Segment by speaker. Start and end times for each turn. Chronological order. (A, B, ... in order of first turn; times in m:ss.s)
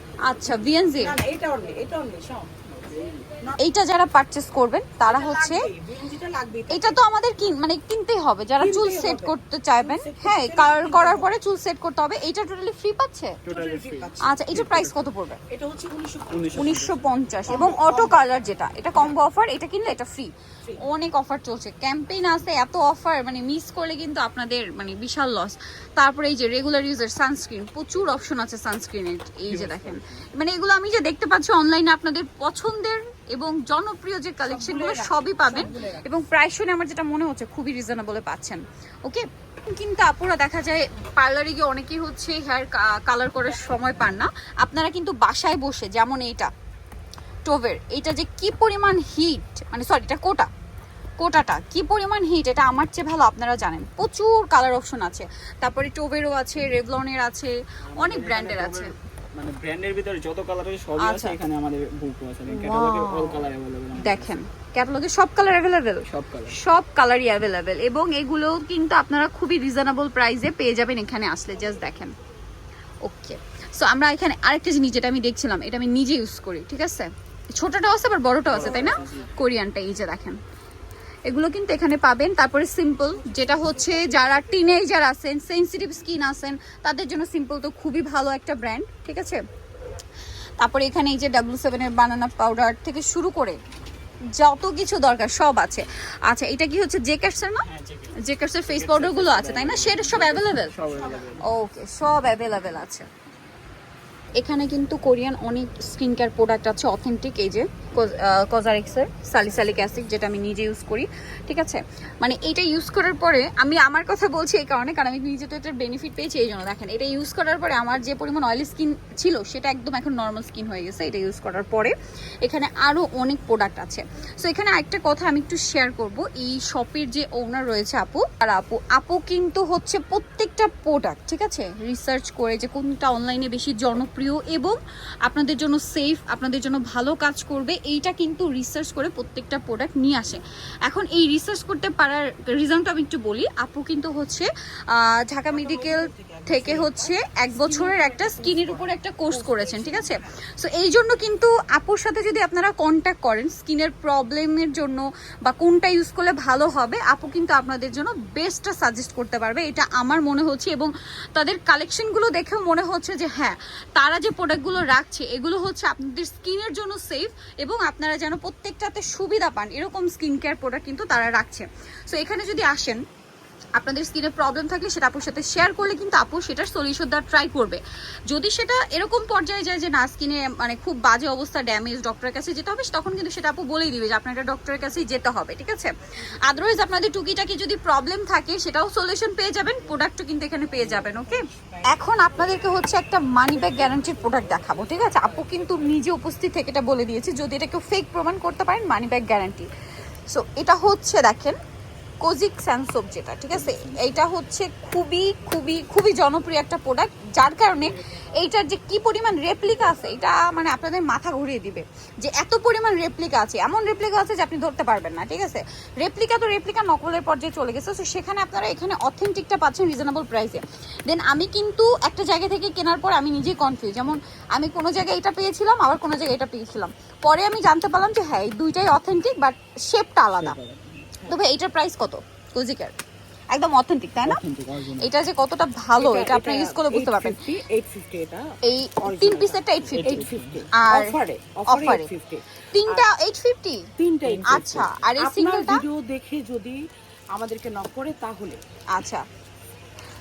0:00.2-0:01.2 A
0:01.0-0:02.5 B
0:02.7-0:03.2 C
0:03.6-0:05.6 A
0:05.0-0:07.0 B
0:06.7-0:13.4 A
0:08.6-0:11.3 B
0:13.4-0:15.0 C
0:13.5-0:14.4 B
0:14.2-0:15.4 A
0:15.5-0:16.8 B
0:16.3-0:17.2 C
0:16.6-0:46.5 A
0:17.5-0:18.2 B
0:29.5-0:30.2 C
0:34.4-0:36.2 B
0:47.4-0:50.5 A
0:51.2-0:58.9 A
0:57.9-1:04.4 C
1:01.0-1:01.4 A
1:02.5-1:03.4 A
1:04.0-1:12.1 A
1:06.1-1:06.6 C
1:13.0-1:20.4 A
1:18.5-1:19.3 C
1:18.6-1:19.0 B
1:21.2-1:29.4 A
1:23.1-1:24.7 B
1:30.6-1:33.6 A
1:34.3-1:37.6 A
1:37.6-1:41.5 C
1:38.2-1:40.7 A
1:40.9-1:41.4 B
1:41.4-1:43.1 A
1:44.4-2:53.0 A
2:25.5-2:30.2 B
2:53.8-3:05.9 A
3:06.4-3:19.7 A
3:10.8-3:12.1 B
3:20.3-3:21.6 A
3:22.2-3:50.6 A
3:23.5-3:24.2 C
3:50.4-3:51.1 C
3:51.3-3:52.9 A
3:53.5-3:54.4 A
3:54.2-3:55.1 C
3:55.0-3:57.4 A
3:56.0-4:03.1 B
3:58.6-4:01.1 A
3:59.9-4:00.7 C
4:01.7-4:02.1 A
4:02.7-4:03.9 A
4:04.0-4:06.8 B
4:04.2-4:05.0 C
4:04.5-4:05.8 A
4:07.3-4:08.6 B
4:08.9-4:09.2 A